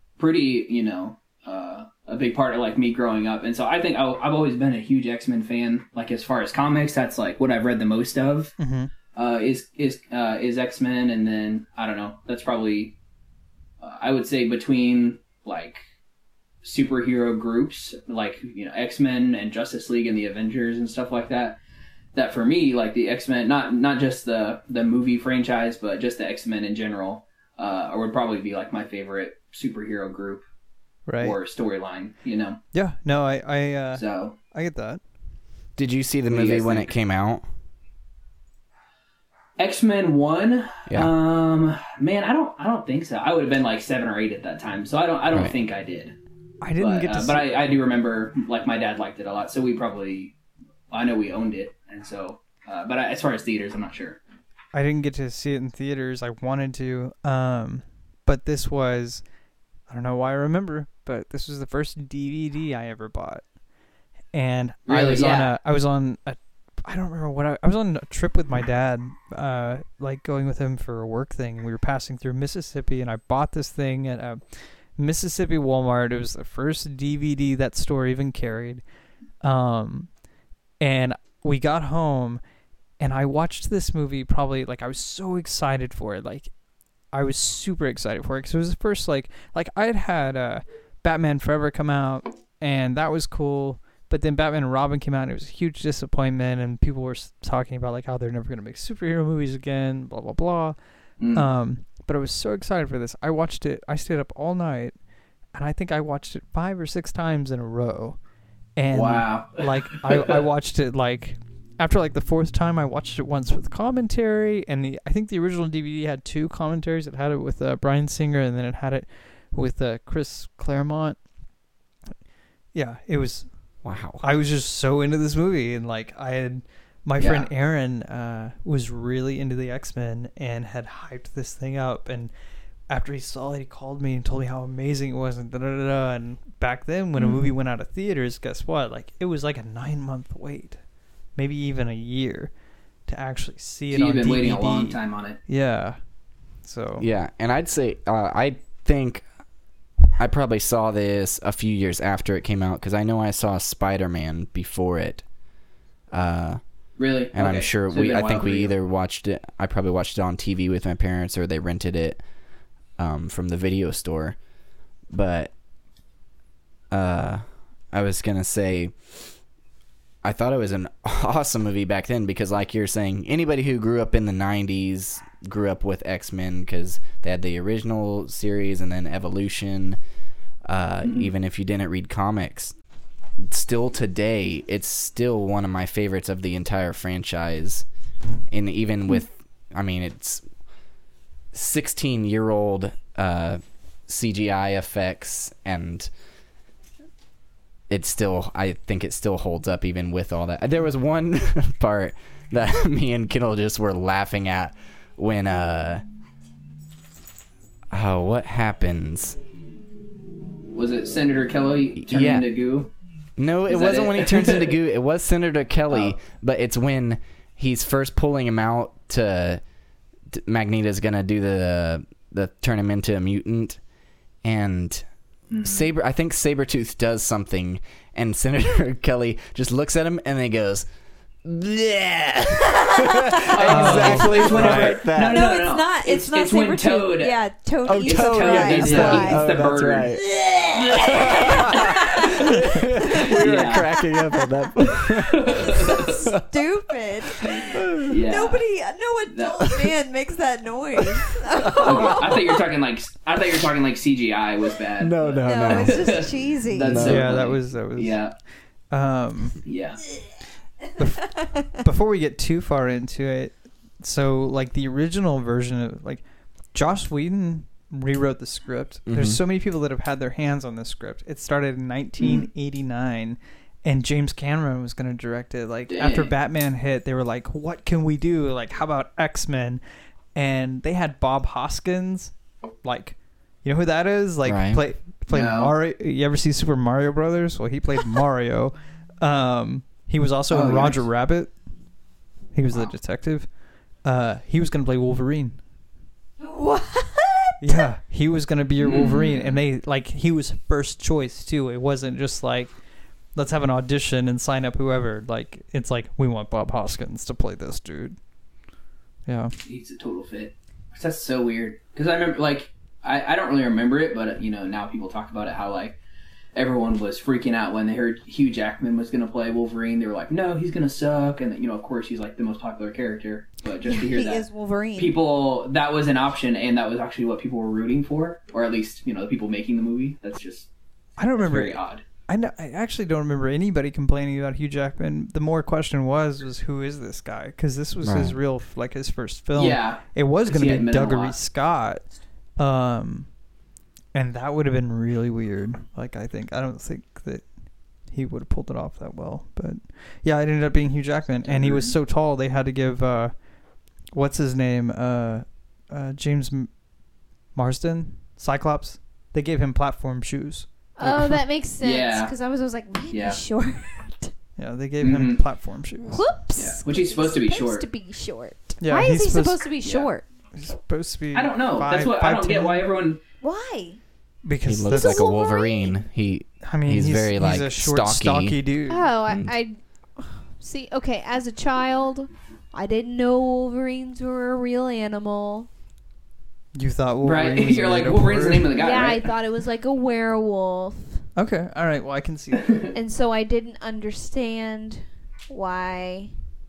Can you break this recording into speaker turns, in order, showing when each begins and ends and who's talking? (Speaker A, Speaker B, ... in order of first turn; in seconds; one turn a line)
Speaker A: 0.2-8.6
Speaker B: 8.6-8.9
Speaker A: 9.1-12.9
Speaker A: 13.8-15.8
Speaker A: 16.6-21.6
Speaker A: 22.1-30.4
Speaker B: 31.1-31.4
Speaker A: 31.2-32.6
Speaker B: 32.7-35.0
Speaker A: 33.9-34.4
Speaker C: 35.8-37.4
Speaker A: 36.3-36.9
Speaker A: 39.6-46.1
Speaker B: 46.6-47.5
Speaker A: 46.8-50.3
Speaker A: 50.9-54.2
Speaker B: 54.7-59.2
Speaker B: 59.9-63.4
Speaker B: 64.3-74.4
Speaker A: 64.9-65.5
Speaker B: 75.0-78.8
Speaker B: 79.4-80.1
Speaker B: 80.8-82.4
Speaker B: 83.0-86.5
Speaker B: 87.1-100.8
Speaker A: 101.2-101.5
Speaker B: 101.3-105.0
Speaker B: 105.5-108.2
Speaker B: 108.8-121.2
Speaker A: 108.9-110.4
Speaker B: 122.7-123.5
Speaker C: 123.8-124.2
Speaker B: 124.2-132.3
Speaker A: 127.2-127.5
Speaker B: 132.9-140.8
Speaker A: 137.2-137.5
Speaker B: 141.4-142.5
Speaker B: 143.1-146.0
Speaker A: 143.9-145.4
Speaker B: 146.6-147.1
Speaker C: 147.0-149.2
Speaker C: 150.2-155.2
Speaker C: 156.1-156.6
Speaker A: 157.0-158.7
Speaker C: 157.3-162.2
Speaker C: 163.0-164.4
Speaker C: 165.1-165.5
Speaker C: 166.9-168.9
Speaker C: 170.2-180.0
Speaker C: 180.7-182.7
Speaker A: 181.0-181.3
Speaker C: 183.4-187.9
Speaker C: 188.5-190.4
Speaker C: 191.5-196.1
Speaker C: 197.9-206.0
Speaker C: 207.9-209.4
Speaker A: 210.7-212.9
Speaker C: 212.0-212.5
Speaker C: 213.4-219.6
Speaker A: 213.7-214.8
Speaker A: 215.9-216.2
Speaker C: 220.3-223.8
Speaker C: 224.4-225.0
Speaker A: 225.5-225.9
Speaker C: 225.6-230.9
Speaker C: 231.4-235.4
Speaker A: 233.5-237.4
Speaker B: 233.6-235.0
Speaker D: 235.2-239.5
Speaker C: 237.9-240.3
Speaker A: 238.0-240.2
Speaker D: 240.3-243.4
Speaker C: 240.9-246.4
Speaker A: 242.2-242.4
Speaker A: 243.1-243.9
Speaker A: 245.1-246.2
Speaker D: 245.8-252.3
Speaker A: 247.4-248.6
Speaker C: 247.7-248.1
Speaker A: 249.3-249.7
Speaker C: 251.6-252.4
Speaker A: 251.7-258.3
Speaker C: 255.0-256.2
Speaker D: 255.4-257.1
Speaker C: 256.8-257.3
Speaker B: 257.0-258.2
Speaker B: 258.9-259.6
Speaker A: 259.6-260.0
Speaker B: 261.0-266.2
Speaker B: 266.7-279.8
Speaker C: 269.1-269.4
Speaker A: 272.2-272.5
Speaker A: 275.9-276.3
Speaker B: 280.3-291.5
Speaker C: 284.4-284.8
Speaker A: 285.3-285.7
Speaker A: 290.5-291.0
Speaker B: 292.5-293.5
Speaker B: 294.0-295.6
Speaker D: 296.4-297.9
Speaker B: 297.6-302.7
Speaker A: 298.8-299.6
Speaker B: 303.3-308.2
Speaker B: 309.3-309.5
Speaker A: 309.6-315.9
Speaker A: 316.6-324.4
Speaker D: 323.8-325.2
Speaker A: 324.9-330.7
Speaker B: 331.2-342.0
Speaker A: 331.4-332.0
Speaker C: 338.0-338.4
Speaker A: 339.6-341.4
Speaker B: 342.6-343.3
Speaker B: 344.1-347.4
Speaker B: 348.1-353.3
Speaker A: 351.4-351.9
Speaker B: 354.1-356.7
Speaker B: 357.6-361.4
Speaker D: 361.0-364.3
Speaker A: 361.8-362.3
Speaker A: 363.1-363.4
Speaker B: 364.6-366.2
Speaker A: 365.0-365.4
Speaker D: 366.1-370.2
Speaker A: 366.6-367.9
Speaker B: 368.8-369.6
Speaker A: 369.8-370.1
Speaker B: 370.6-372.8
Speaker A: 371.3-373.2
Speaker D: 373.4-374.0
Speaker B: 374.4-375.3
Speaker C: 374.6-378.6
Speaker D: 374.9-376.0
Speaker B: 376.6-379.1
Speaker D: 378.9-385.7
Speaker B: 386.7-388.7
Speaker A: 387.2-389.3
Speaker D: 388.8-391.2
Speaker B: 391.4-392.9
Speaker D: 392.9-396.3